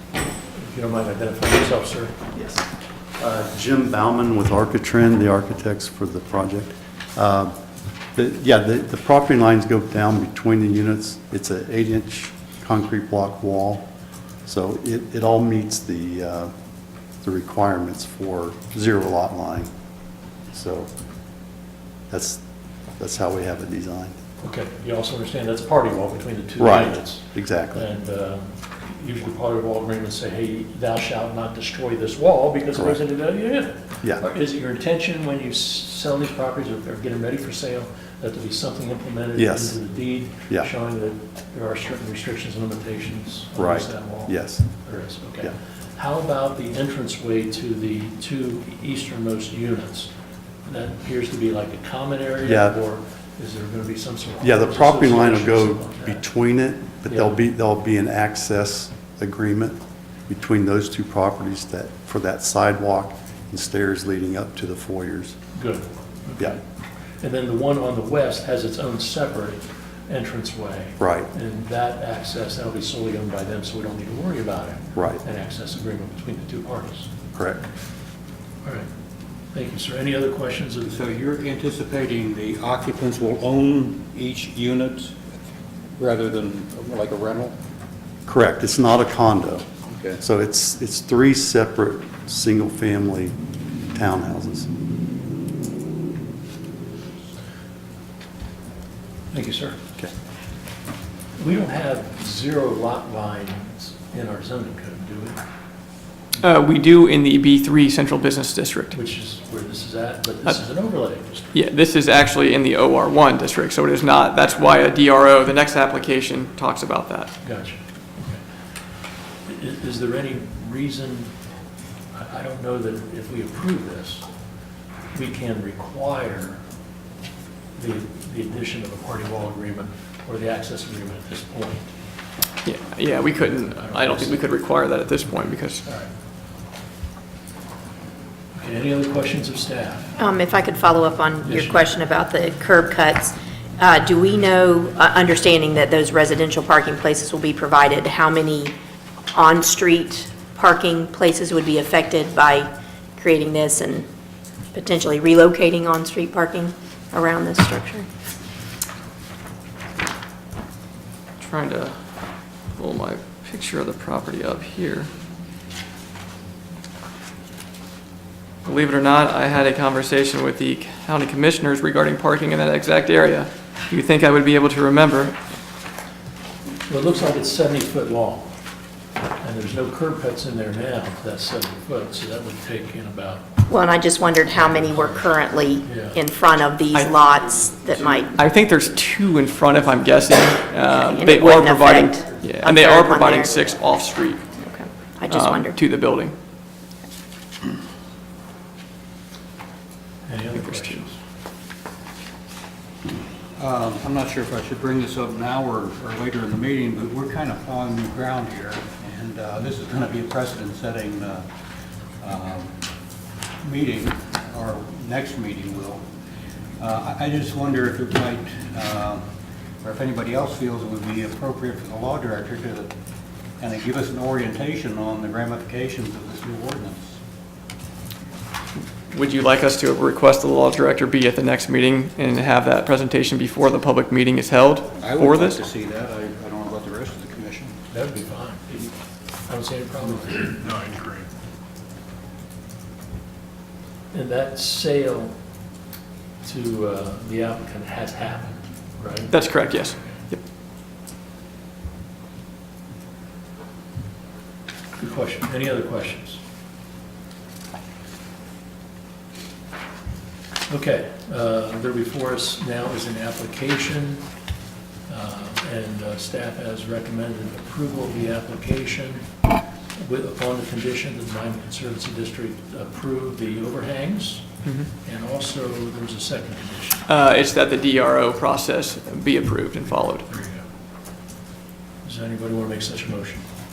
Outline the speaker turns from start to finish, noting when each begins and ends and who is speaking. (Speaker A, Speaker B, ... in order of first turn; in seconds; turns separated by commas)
Speaker A: 0.5-2.2, Speaker B: 3.2-7.5, Speaker B: 8.1-13.8, Speaker B: 14.4-16.5, Speaker B: 17.2-19.7, Speaker B: 20.5-20.9, Speaker B: 22.1-22.4, Speaker B: 23.0-24.1, Speaker A: 24.4-50.1, Speaker B: 26.6-27.9, Speaker B: 32.7-33.0, Speaker B: 39.4-39.8, Speaker B: 43.5-44.7, Speaker A: 50.6-56.2, Speaker B: 52.4-52.8, Speaker B: 54.4-65.4, Speaker A: 57.1-57.4, Speaker A: 65.5-66.6, Speaker A: 67.2-77.1, Speaker B: 71.0-71.3, Speaker B: 74.9-75.2, Speaker B: 77.3-77.6, Speaker A: 79.5-81.0, Speaker C: 80.8-85.2, Speaker C: 86.0-87.5, Speaker B: 88.2-89.7, Speaker C: 89.9-90.2, Speaker B: 90.2-93.3, Speaker B: 93.9-94.7, Speaker A: 99.3-99.8, Speaker A: 101.3-105.4, Speaker D: 106.4-108.9, Speaker A: 108.9-111.5, Speaker D: 111.5-117.3, Speaker A: 117.4-118.4, Speaker A: 119.4-121.3, Speaker A: 122.1-124.2, Speaker A: 125.1-126.6, Speaker A: 127.8-131.9, Speaker D: 132.6-135.8, Speaker A: 133.7-134.4, Speaker A: 135.8-136.1, Speaker A: 138.5-140.1, Speaker E: 140.2-148.7, Speaker A: 141.4-141.9, Speaker E: 149.3-154.1, Speaker E: 154.7-158.1, Speaker D: 161.4-161.9, Speaker D: 162.8-165.1, Speaker D: 168.6-175.3, Speaker A: 176.9-178.5, Speaker A: 179.4-183.4, Speaker E: 183.7-188.3, Speaker A: 184.5-185.3, Speaker A: 185.8-186.2, Speaker D: 188.3-194.5, Speaker E: 191.0-193.7, Speaker E: 194.6-195.8, Speaker D: 195.3-196.3, Speaker A: 200.2-201.2, Speaker D: 200.6-201.0, Speaker C: 203.6-211.4, Speaker C: 212.2-212.7, Speaker C: 213.6-216.0, Speaker C: 216.8-219.2, Speaker C: 219.8-222.9, Speaker C: 223.6-227.1, Speaker D: 229.1-235.6, Speaker C: 234.9-237.8, Speaker A: 237.9-238.9, Speaker A: 239.4-240.6, Speaker C: 240.3-241.3, Speaker A: 244.1-245.3, Speaker A: 246.4-250.1, Speaker D: 249.3-250.4, Speaker A: 255.0-256.4, Speaker A: 260.7-264.2, Speaker A: 265.1-269.2, Speaker A: 269.9-274.4, Speaker A: 275.0-277.1, Speaker D: 277.1-280.3, Speaker A: 280.3-280.6, Speaker A: 282.0-283.4